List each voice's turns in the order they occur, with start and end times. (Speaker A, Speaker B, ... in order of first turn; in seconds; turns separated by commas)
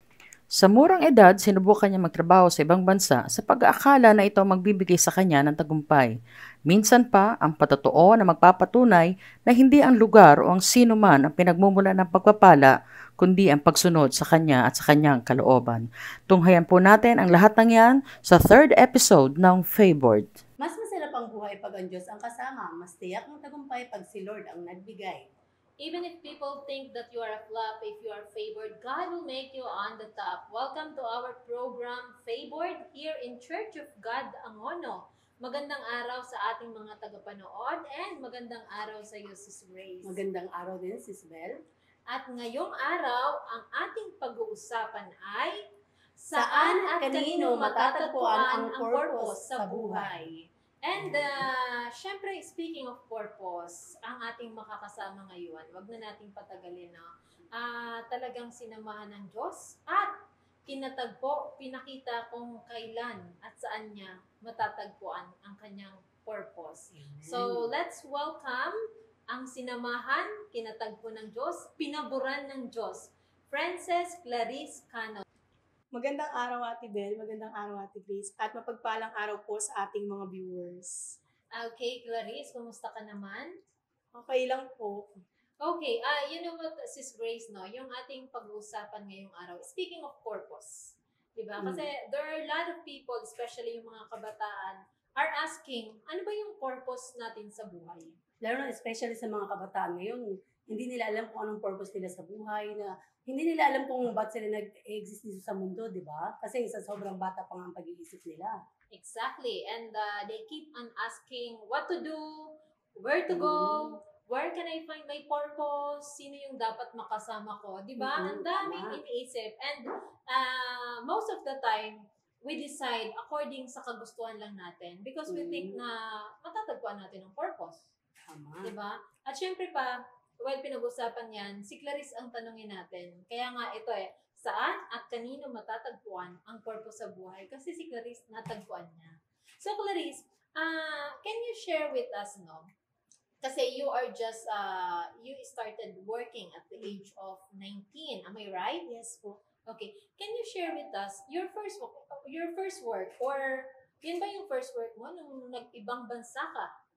Speaker A: 0.5-20.3, Speaker B: 20.6-25.3, Speaker C: 25.8-40.2, Speaker B: 40.0-41.6, Speaker C: 42.1-45.7, Speaker C: 46.2-75.2, Speaker B: 46.4-50.2, Speaker B: 66.9-67.7, Speaker D: 75.9-81.2, Speaker C: 81.5-83.5, Speaker D: 84.2-85.2, Speaker C: 85.6-98.2, Speaker B: 91.6-91.8, Speaker B: 98.4-108.5, Speaker C: 108.9-127.9, Speaker B: 113.3-114.0, Speaker B: 118.0-119.0, Speaker B: 125.3-125.8, Speaker B: 128.3-128.7, Speaker C: 128.6-142.7, Speaker C: 143.4-148.9, Speaker D: 148.9-149.4, Speaker C: 149.7-156.7